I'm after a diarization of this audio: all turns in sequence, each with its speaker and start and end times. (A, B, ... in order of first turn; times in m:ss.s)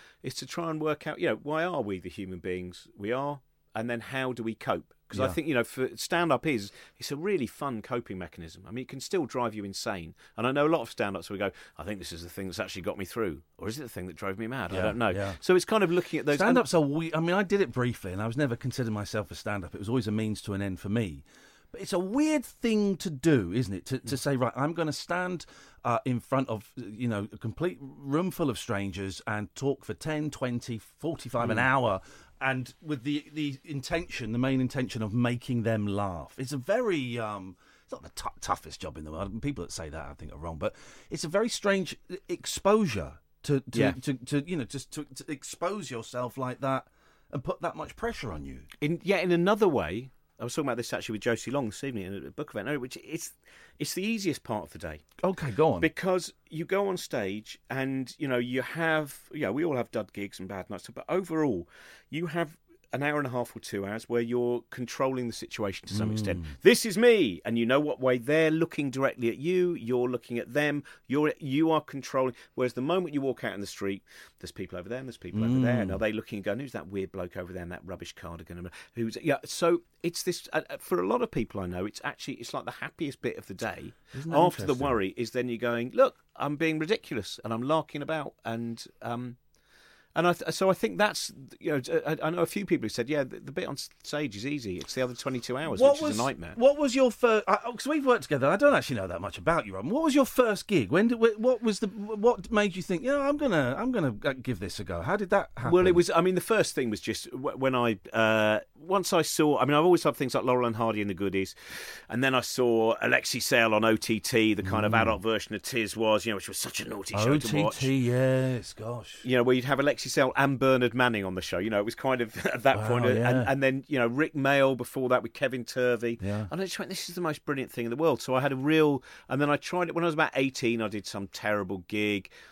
0:00.2-0:16.6 A
0:05.1-0:05.4 B
0:14.7-0:15.4 B
0:16.3-0:48.6 B
0:48.8-0:55.0 A
0:55.2-0:55.9 B
0:55.8-1:29.4 A
1:05.9-1:06.5 B
1:15.3-1:16.0 B
1:24.1-1:25.0 B
1:30.1-1:36.6 A
1:35.7-1:46.0 B
1:45.6-1:57.9 A
1:54.6-1:55.2 B
1:57.1-1:59.2 B
1:59.2-2:12.3 A
2:02.7-2:03.5 B
2:06.2-2:06.5 B